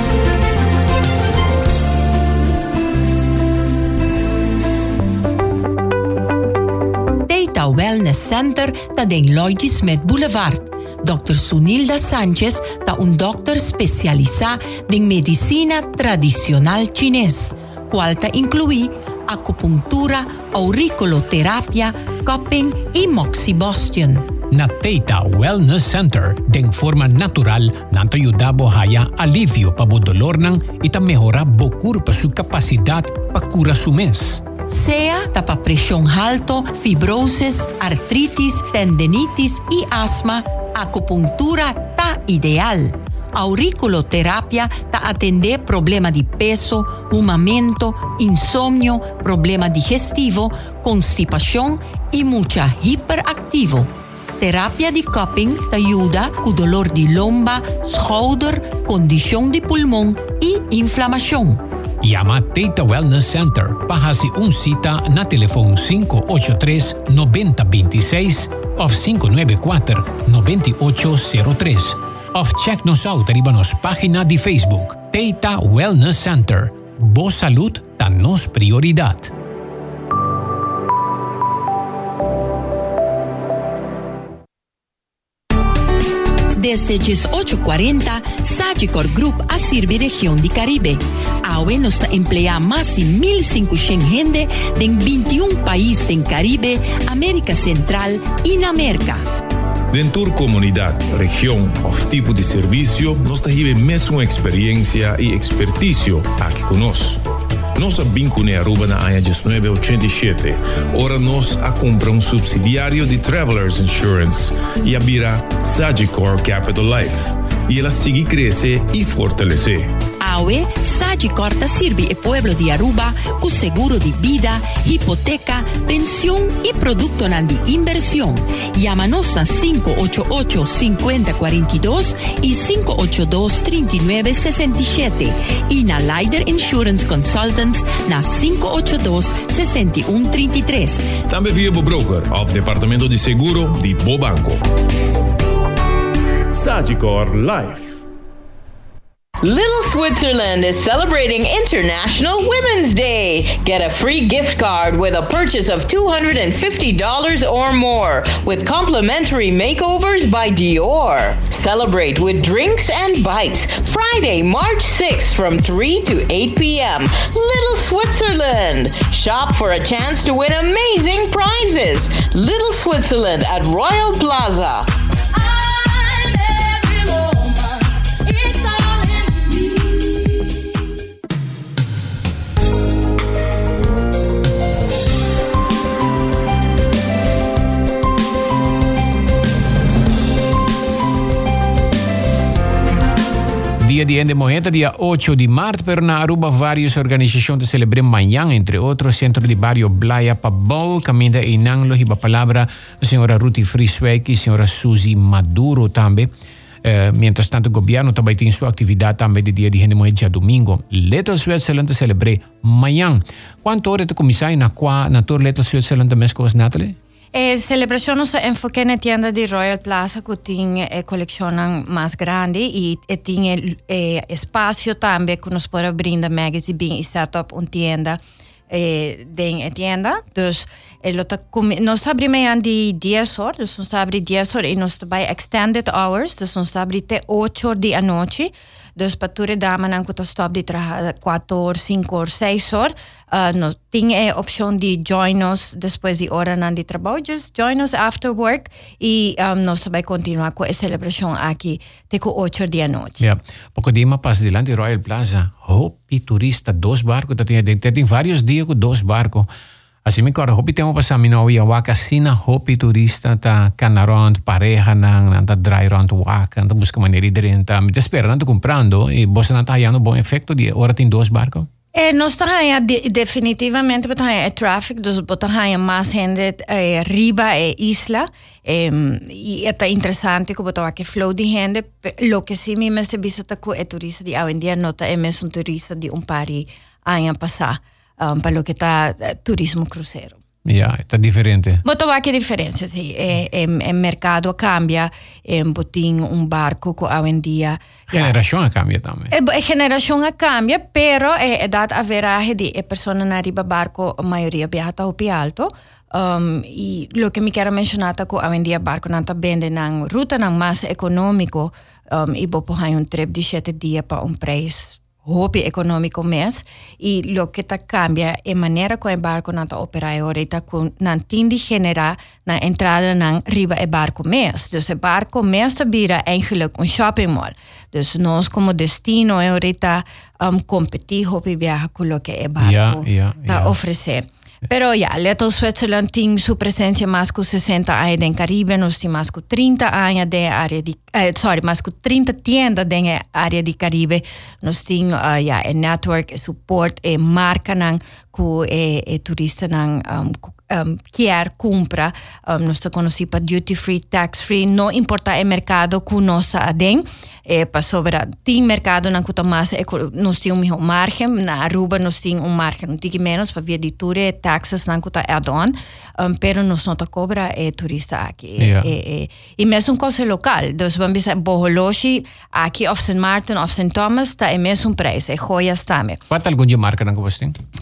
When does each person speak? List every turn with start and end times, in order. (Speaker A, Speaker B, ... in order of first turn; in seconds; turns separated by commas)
Speaker A: 7.2-24.3, Speaker B: 24.5-34.4, Speaker A: 34.7-61.6, Speaker B: 62.0-79.3, Speaker A: 86.5-99.2, Speaker C: 99.9-107.2, Speaker C: 107.8-117.2, Speaker C: 117.7-119.9, Speaker A: 120.2-141.1, Speaker C: 141.3-144.6, Speaker C: 146.5-148.0, Speaker D: 149.4-180.1, Speaker B: 193.8-206.3, Speaker B: 206.8-216.9, Speaker E: 217.3-253.2, Speaker B: 253.2-259.5, Speaker B: 260.0-271.7, Speaker E: 271.9-290.4, Speaker B: 290.6-291.8, Speaker E: 291.8-298.3, Speaker B: 298.1-299.3, Speaker E: 299.3-376.2, Speaker B: 332.6-333.7, Speaker B: 368.6-368.9, Speaker B: 376.3-377.6